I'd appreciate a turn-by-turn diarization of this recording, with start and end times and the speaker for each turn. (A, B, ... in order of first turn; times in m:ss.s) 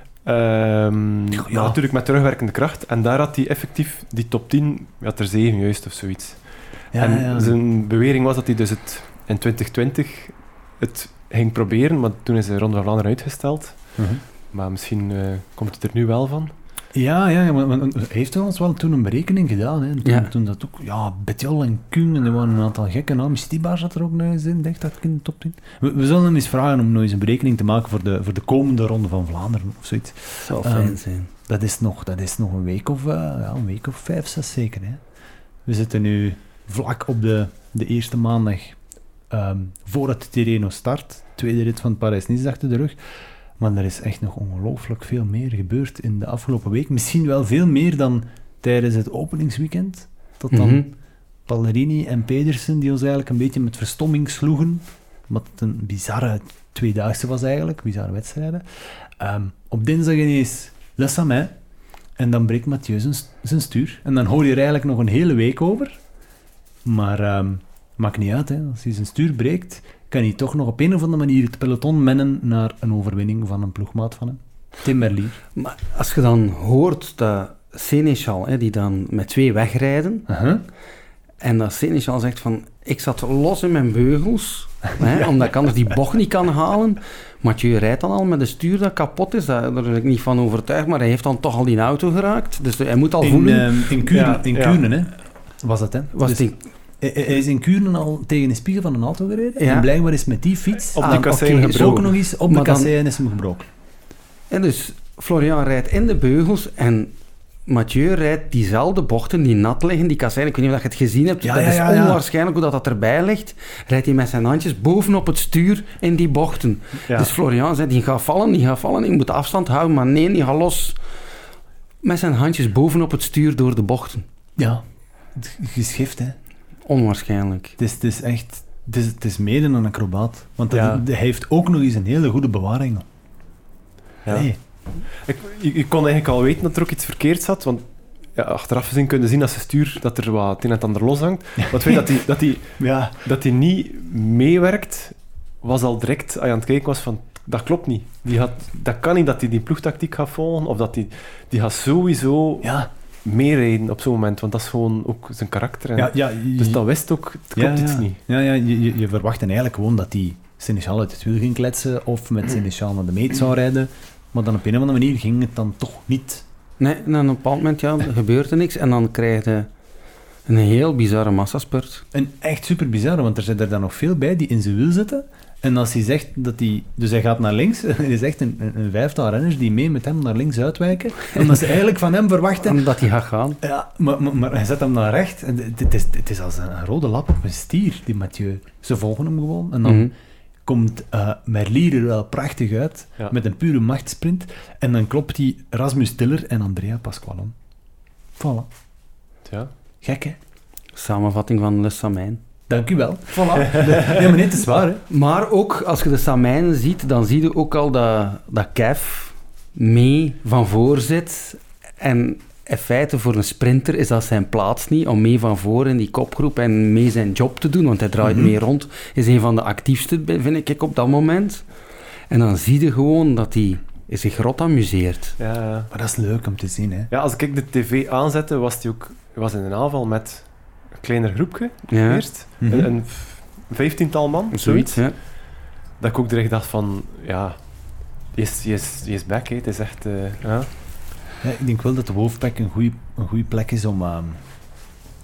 0:00.2-0:16.5 A
0:01.3-0:01.8 B
0:06.9-0:07.6 B
0:14.0-0:14.2 B
0:16.9-0:35.0 B
0:20.0-0:20.3 C
0:30.4-0:31.3 C
0:35.7-0:38.8 B
0:39.3-0:43.0 B
0:43.6-0:50.8 B
0:50.5-0:50.9 C
0:51.5-1:01.6 B
1:02.2-1:06.0 B
1:06.8-1:15.4 B
1:15.6-1:20.3 C
1:20.3-1:20.6 B
1:21.4-1:34.0 C
1:33.2-1:43.7 B
1:34.1-1:34.8 A
1:36.1-1:36.6 C
1:39.6-1:39.9 C
1:40.9-1:42.1 A
1:41.0-1:42.9 C
1:44.5-1:47.1 C
1:47.7-2:01.0 C
1:51.4-1:52.2 B
1:57.1-1:57.3 A
2:02.0-2:04.3 C
2:04.6-2:04.8 B
2:05.3-2:06.4 B
2:06.9-2:07.8 C
2:07.8-2:13.0 B
2:10.7-2:11.0 A
2:14.2-2:14.5 A
2:14.3-2:14.6 B
2:15.1-2:32.7 A
2:21.7-2:23.2 B
2:32.6-2:32.9 B
2:33.2-2:38.2 A
2:36.0-2:36.8 B
2:37.6-2:46.4 B
2:46.8-2:49.7 C
2:50.5-2:52.0 C
2:52.1-3:02.9 B
3:02.6-3:03.6 C
3:03.6-3:10.1 B
3:09.8-3:10.1 C
3:10.7-3:17.6 B
3:18.4-3:18.7 B
3:19.4-3:19.7 A
3:20.0-3:20.4 B
3:21.0-3:22.4 C
3:22.7-3:25.0 B
3:23.6-3:24.2 A
3:25.1-3:41.6 C
3:38.2-3:38.5 B
3:42.3-3:45.4 C
3:45.4-3:45.9 A
3:45.9-3:47.1 B
3:47.1-4:00.7 A
3:51.9-3:52.3 C
3:52.6-3:52.9 B
3:54.5-3:55.2 C
4:01.4-4:04.4 B